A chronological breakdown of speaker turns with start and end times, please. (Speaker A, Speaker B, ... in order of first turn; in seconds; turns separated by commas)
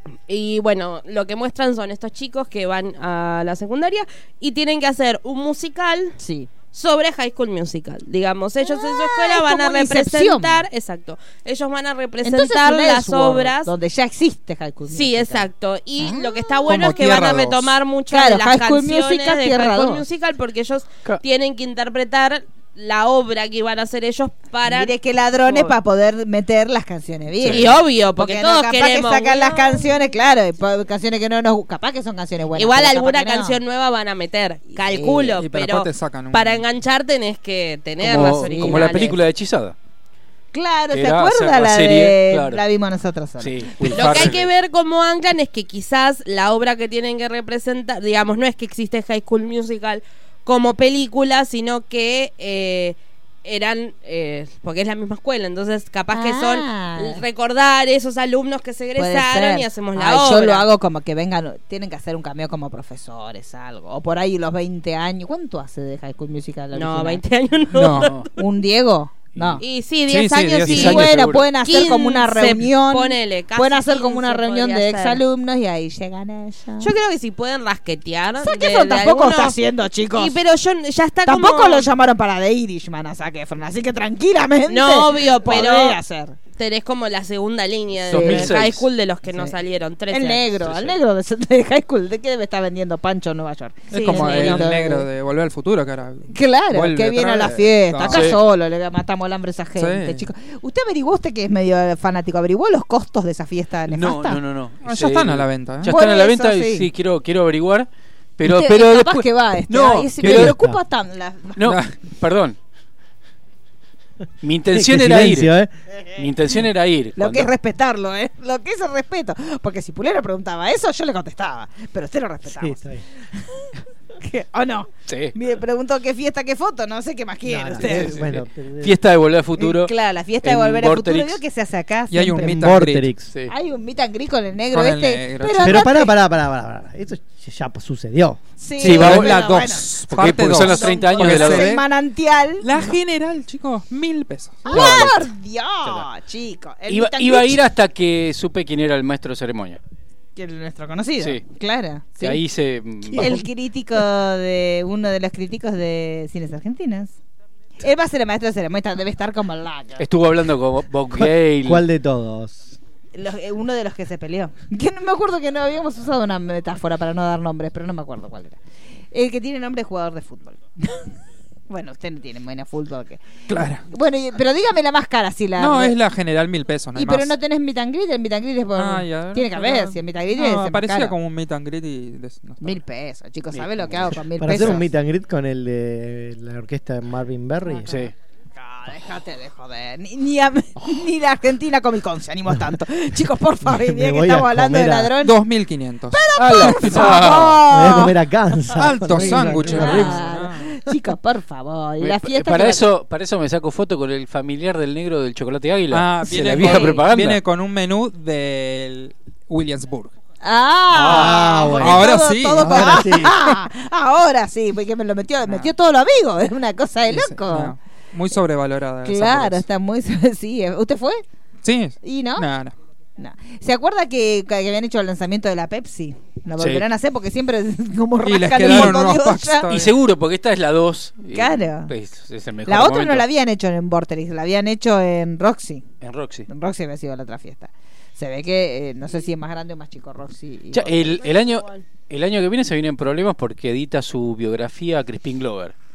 Speaker A: 0.3-6.2, Speaker B: 6.2-6.5, Speaker A: 6.7-13.7, Speaker B: 8.6-10.6, Speaker B: 12.2-15.4, Speaker A: 14.9-25.8, Speaker B: 16.0-16.7, Speaker C: 16.6-17.8, Speaker B: 18.1-20.0, Speaker B: 24.6-33.6, Speaker A: 27.4-29.9, Speaker A: 32.5-39.2, Speaker B: 34.7-35.4, Speaker C: 35.4-36.6, Speaker D: 38.0-39.7, Speaker B: 38.4-39.1, Speaker B: 40.5-44.3, Speaker D: 40.9-42.6, Speaker D: 43.4-44.5, Speaker A: 43.9-60.7, Speaker B: 56.1-57.2, Speaker B: 59.0-67.2, Speaker A: 66.7-68.4, Speaker C: 67.7-68.2, Speaker B: 68.4-69.6, Speaker A: 69.6-75.2, Speaker C: 70.1-71.1, Speaker D: 70.6-71.5, Speaker B: 70.7-76.9, Speaker A: 76.8-79.6, Speaker B: 78.4-80.3, Speaker A: 80.1-81.9, Speaker B: 81.2-86.3, Speaker A: 84.7-86.0, Speaker A: 86.5-90.5, Speaker D: 88.0-88.9, Speaker B: 88.1-88.5, Speaker B: 89.3-89.5, Speaker B: 90.1-95.1, Speaker D: 90.6-91.0, Speaker C: 93.9-98.3, Speaker A: 93.9-94.7, Speaker B: 96.3-104.4, Speaker D: 98.0-98.4, Speaker C: 99.8-100.3, Speaker D: 103.9-110.6, Speaker C: 104.8-105.9, Speaker B: 105.9-106.9, Speaker B: 108.4-111.7, Speaker E: 110.2-110.8, Speaker D: 111.6-112.6, Speaker D: 114.4-115.5, Speaker E: 114.7-115.7, Speaker D: 116.1-117.5, Speaker B: 117.2-122.8, Speaker E: 122.5-123.0, Speaker B: 123.4-123.7, Speaker B: 124.2-128.3, Speaker D: 125.1-125.3, Speaker E: 127.4-129.0, Speaker D: 127.8-131.4, Speaker B: 129.6-132.6, Speaker C: 132.1-133.1, Speaker E: 132.3-133.3, Speaker B: 133.5-136.1, Speaker C: 134.7-135.9, Speaker E: 135.6-138.4, Speaker B: 138.6-139.9, Speaker D: 138.8-141.8, Speaker C: 138.8-141.8, Speaker B: 140.5-142.7, Speaker C: 142.6-145.2, Speaker B: 144.6-147.6, Speaker D: 144.7-145.2, Speaker D: 146.9-149.8, Speaker B: 150.3-152.4, Speaker D: 152.2-153.4, Speaker B: 153.1-157.1, Speaker B: 157.8-160.0, Speaker D: 160.0-161.8, Speaker E: 161.1-162.8, Speaker B: 163.1-168.6, Speaker B: 169.1-171.1, Speaker B: 171.7-176.0, Speaker C: 173.5-173.8, Speaker C: 175.6-177.3, Speaker B: 176.9-181.1, Speaker C: 178.7-182.8, Speaker B: 182.6-184.8, Speaker D: 183.5-184.8, Speaker E: 184.4-188.0, Speaker D: 187.8-188.1, Speaker B: 188.6-195.4, Speaker E: 193.6-195.1, Speaker C: 195.2-197.2, Speaker B: 196.1-198.2, Speaker D: 196.3-197.7, Speaker E: 197.7-200.2, Speaker C: 198.7-200.7, Speaker B: 199.1-202.8, Speaker D: 202.0-207.4, Speaker C: 205.9-210.1, Speaker B: 210.4-217.7, Speaker E: 211.0-213.5, Speaker C: 211.1-213.2, Speaker C: 217.1-219.6, Speaker B: 219.0-221.2, Speaker C: 221.6-222.7, Speaker B: 222.0-222.5, Speaker B: 223.2-229.7, Speaker D: 226.6-226.8, Speaker C: 228.2-229.9, Speaker D: 228.6-229.0, Speaker D: 229.7-233.3, Speaker B: 231.3-231.9, Speaker B: 232.6-235.9, Speaker D: 236.0-236.4, Speaker B: 236.5-241.3, Speaker D: 240.7-245.7